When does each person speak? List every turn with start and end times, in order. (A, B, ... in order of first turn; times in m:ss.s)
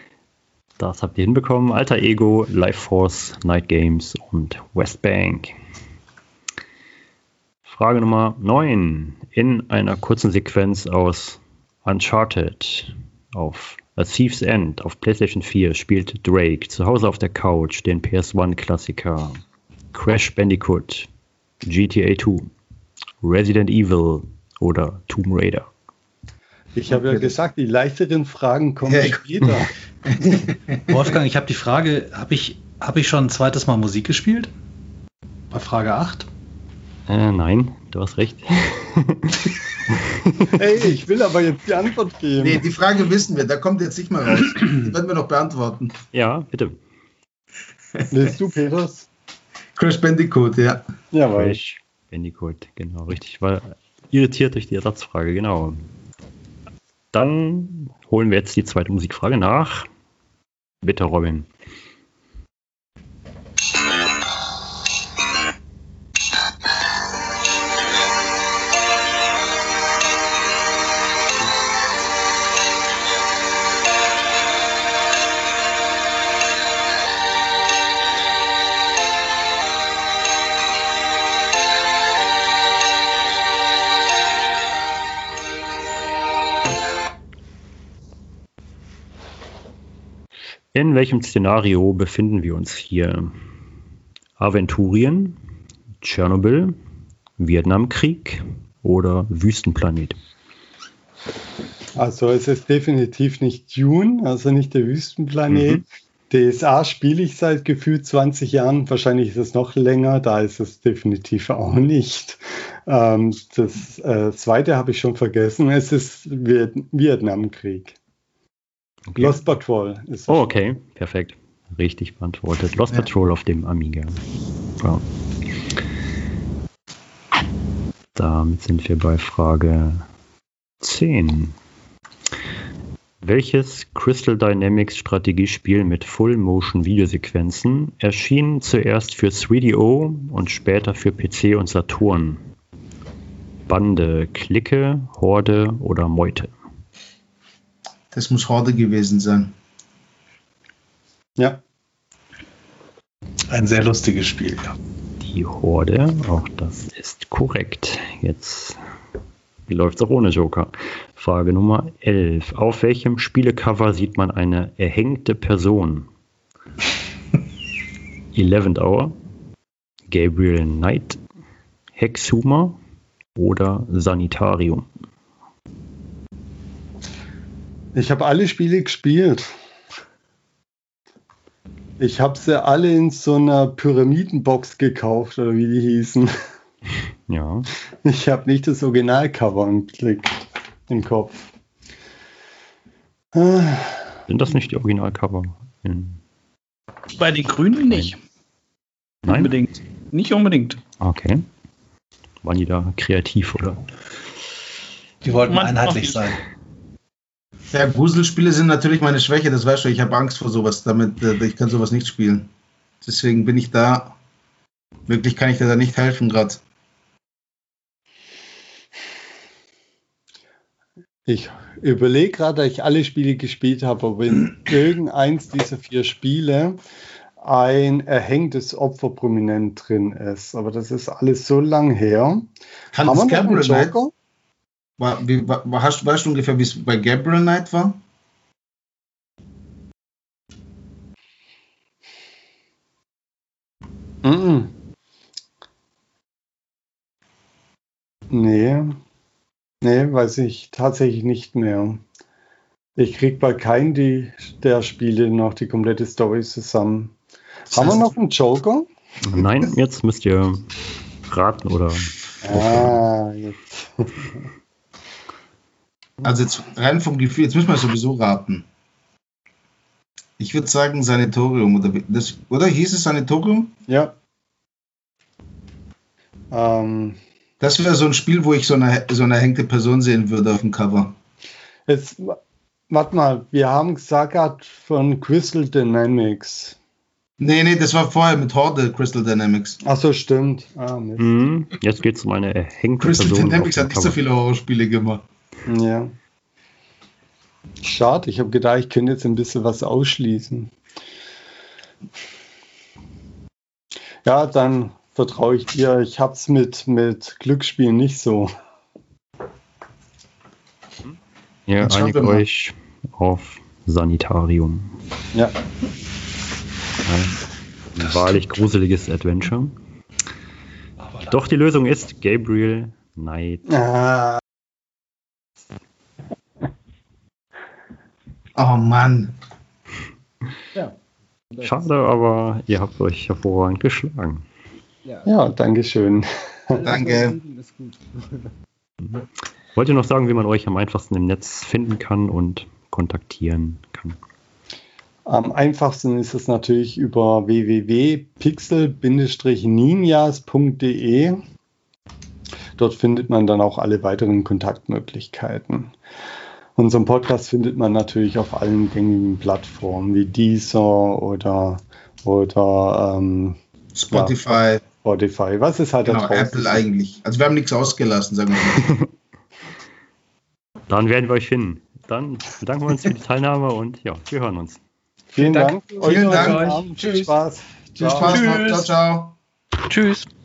0:00.8-0:05.6 A
0:07.7-0:19.4 A
0:19.9-0:21.1 A
0:21.6-0:22.5 A
0:23.2-0:25.7 A
0:26.7-0:29.7 B
0:26.9-0:27.4 C
0:28.8-0:29.5 C
0:30.1-0:31.2 C
0:30.9-0:34.5 D
0:35.5-0:36.3 D
0:37.1-0:40.0 A
0:40.5-0:42.6 B
0:42.4-0:46.0 C
0:46.1-0:46.8 A
0:48.1-0:49.1 B
0:49.8-0:50.8 C
0:51.1-0:51.6 B
0:51.3-0:55.8 A
0:57.1-0:59.9 A
1:00.8-1:01.5 A
1:30.7-1:33.3 A
1:34.4-1:35.4 A
1:36.0-1:36.7 A
1:37.4-1:40.2 A
1:41.9-1:58.0 B
1:45.5-1:45.8 A
1:59.1-1:59.4 A
1:59.1-2:00.4 B
2:00.3-2:04.2 A
2:08.1-2:10.0 A
2:10.8-2:11.6 A
2:13.2-2:22.4 A
2:23.7-2:26.5 A
2:28.1-2:29.5 C
2:33.5-2:34.7 D
2:35.2-2:38.8 A
2:39.7-2:46.1 A
2:48.3-2:49.2 A
2:50.1-2:51.2 A
2:51.9-2:52.8 A
2:53.4-2:54.9 A
2:57.9-2:59.5 B
3:02.0-3:06.3 B
3:07.3-3:07.7 A
3:08.0-3:11.5 B
3:13.3-3:14.2 B
3:14.3-3:16.2 A
3:17.1-3:18.2 E
3:19.2-3:19.5 A
3:19.2-3:20.8 E
3:21.0-3:21.4 A
3:22.4-3:23.8 A
3:25.2-3:26.4 D
3:25.5-3:26.2 E
3:27.7-3:32.5 C
3:33.0-3:34.2 C
3:35.1-3:36.6 C
3:41.3-3:46.8 B
3:47.4-3:54.1 B
3:52.9-3:53.9 C
3:55.0-3:58.0 C
4:04.2-4:04.7 B
4:08.3-4:09.0 B
4:09.8-4:12.0 B
4:13.0-4:17.1 B
4:17.7-4:18.9 B
4:19.2-4:20.6 A
4:21.3-4:23.0 A
4:22.4-4:24.3 B
4:26.2-4:28.7 C
4:30.4-4:33.7 C
4:33.9-4:34.1 B
4:36.5-4:37.2 B
4:37.6-4:41.1 C
4:41.9-4:42.4 B
4:42.9-4:46.8 B
4:47.4-4:49.8 C
4:49.8-4:51.4 B
4:51.2-4:54.2 A
4:53.0-4:55.2 C
4:55.7-4:56.1 B
4:57.8-5:00.7 B
5:04.2-5:08.5 B
5:11.7-5:14.9 A
5:11.8-5:12.4 C
5:17.0-5:17.4 A
5:17.9-5:19.7 A
5:21.0-5:21.3 D
5:21.3-5:23.6 A
5:23.7-5:24.4 B
5:28.6-5:29.3 C
5:31.5-5:31.9 F
5:31.6-5:34.4 A
5:35.0-5:35.3 F
5:35.2-5:36.9 B
5:36.7-5:38.5 F
5:36.8-5:37.4 C
5:39.7-5:44.2 A
5:45.3-5:51.4 B
5:52.8-5:55.9 B
5:56.8-6:03.6 B
6:04.0-6:04.8 C
6:04.1-6:04.4 B
6:04.9-6:06.8 B
6:06.0-6:08.9 C
6:10.9-6:14.8 A
6:15.3-6:18.5 B
6:16.0-6:17.3 C
6:16.2-6:16.8 E
6:18.0-6:19.4 C
6:18.1-6:18.9 E
6:19.8-6:20.3 E